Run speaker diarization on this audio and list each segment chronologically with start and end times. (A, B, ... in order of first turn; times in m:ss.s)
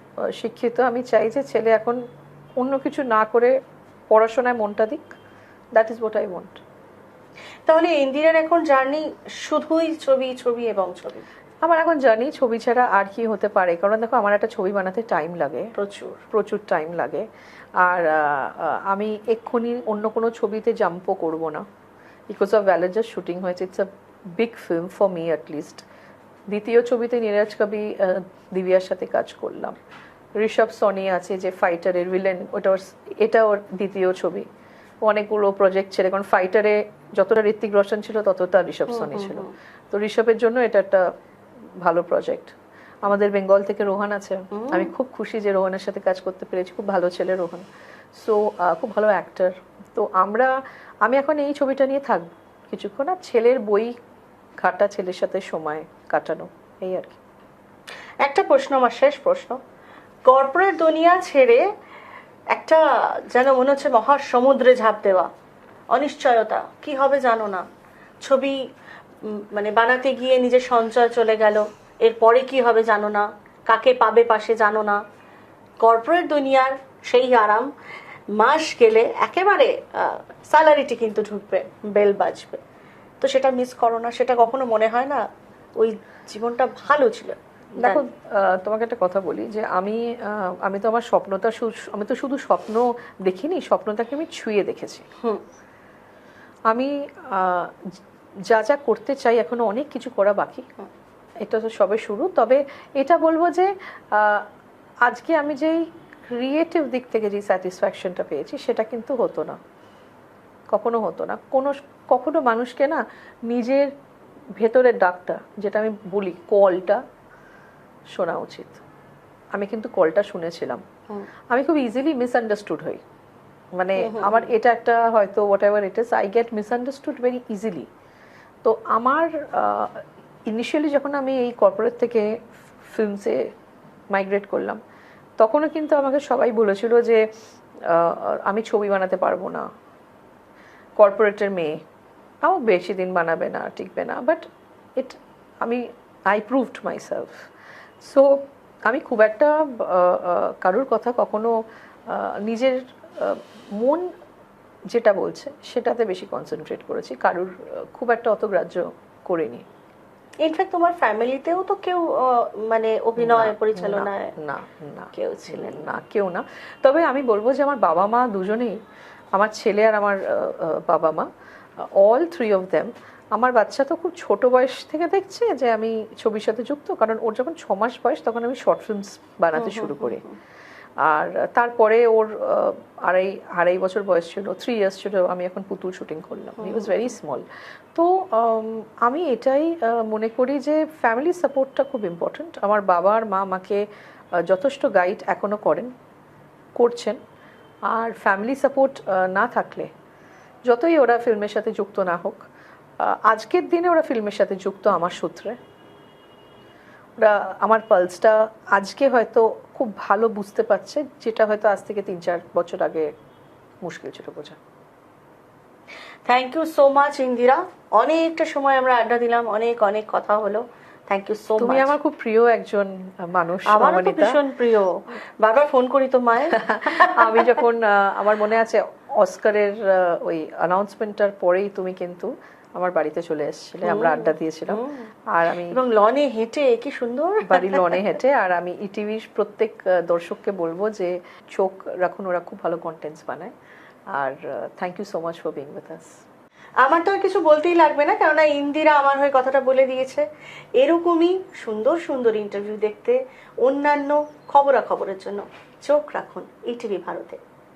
0:00.2-0:02.0 A
0:02.6-0:03.6 A
0:04.1-0:05.1 A
0:05.8-0:06.6 A
0:07.7-0:11.2 B
0:11.6-0:15.7 A
0:15.8-0:16.2 B
0:16.3-0:21.7 A
0:22.3-0:25.8 A
0:26.5-0:29.8 A
0:30.4-0:34.5 A
0:35.0-0:41.1 A
0:38.9-0:39.5 B
0:41.8-0:54.0 A
0:44.5-0:44.9 B
0:54.6-0:57.2 A
0:58.2-0:59.6 B
1:00.2-1:01.7 B
1:02.5-1:05.3 B
1:05.9-1:07.7 B
1:08.2-1:08.6 B
1:09.2-1:15.0 B
1:15.8-1:17.7 B
1:18.3-1:22.6 B
1:23.2-1:25.2 B
1:25.8-1:28.0 B
1:27.8-1:35.1 A
1:36.7-1:40.7 A
1:41.4-1:44.5 A
1:45.0-1:49.6 A
1:50.7-1:53.9 A
1:54.6-1:57.0 A
1:58.1-1:58.8 A
1:59.5-2:00.8 A
2:01.5-2:03.0 A
2:03.8-2:07.9 A
2:04.0-2:04.5 B
2:08.6-2:13.4 A
2:14.1-2:14.8 A
2:15.4-2:17.2 A
2:17.8-2:19.7 A
2:21.0-2:21.8 A
2:22.4-2:27.5 A
2:28.0-2:31.6 A
2:32.1-2:34.1 A
2:34.9-2:39.7 A
2:40.4-2:44.4 B
2:43.2-2:48.8 A
2:45.1-2:45.9 B
2:49.4-2:51.3 A
2:51.8-3:00.2 A
2:59.6-3:00.4 B
3:01.0-3:13.8 A
3:06.6-3:07.0 B
3:14.4-3:15.9 A
3:16.8-3:17.2 A
3:17.9-3:19.9 A
3:20.7-3:22.5 A
3:23.0-3:25.6 A
3:27.2-3:33.1 A
3:33.8-3:34.6 A
3:36.3-3:41.9 B
3:41.6-3:44.4 A
3:43.7-3:47.5 B
3:46.5-3:55.8 A
3:53.8-3:55.1 B
3:55.6-3:58.1 B
3:57.4-4:03.5 A
4:04.1-4:06.2 A
4:06.8-4:17.4 B